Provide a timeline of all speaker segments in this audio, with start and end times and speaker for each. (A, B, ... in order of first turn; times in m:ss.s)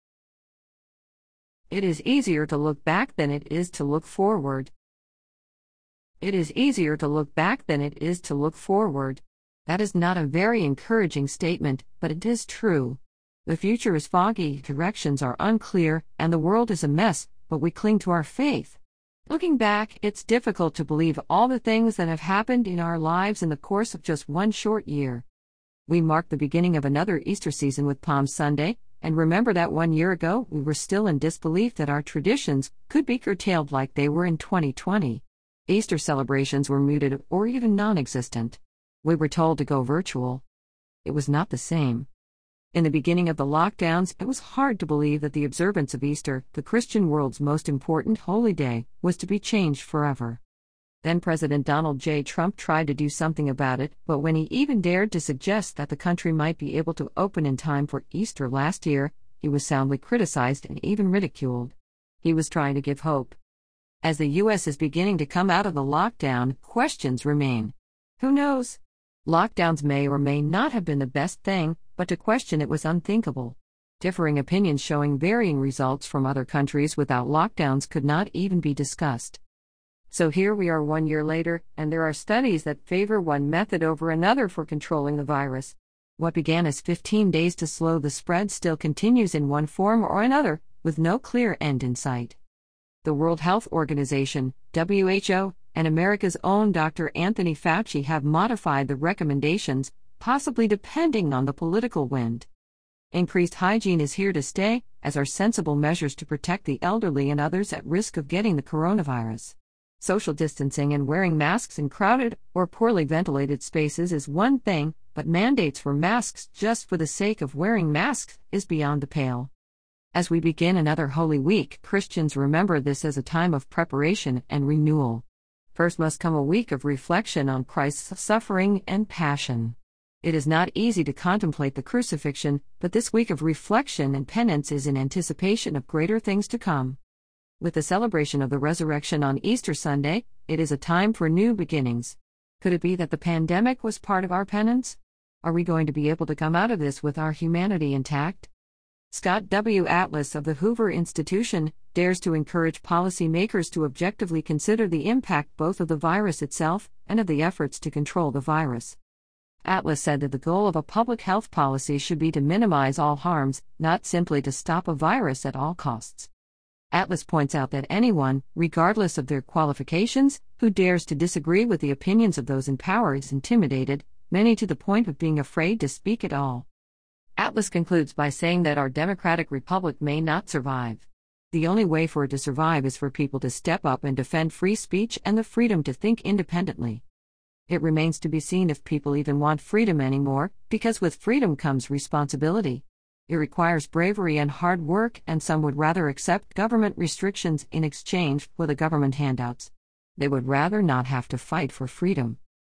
0:01.7-0:04.7 A
0:06.2-0:25.2 A
0:25.9-0:40.4 A
0:41.0-0:42.1 A
0:42.7-0:50.4 A
0:51.0-1:03.4 A
1:04.0-1:19.4 A
1:20.1-1:32.4 A
1:33.0-1:42.5 A
1:43.1-1:59.5 A
2:00.1-2:17.0 A
2:17.6-2:28.5 A
2:29.1-2:39.0 A
2:39.6-2:46.3 A
2:46.9-2:56.7 A
2:57.4-3:07.0 A
3:07.7-3:22.4 A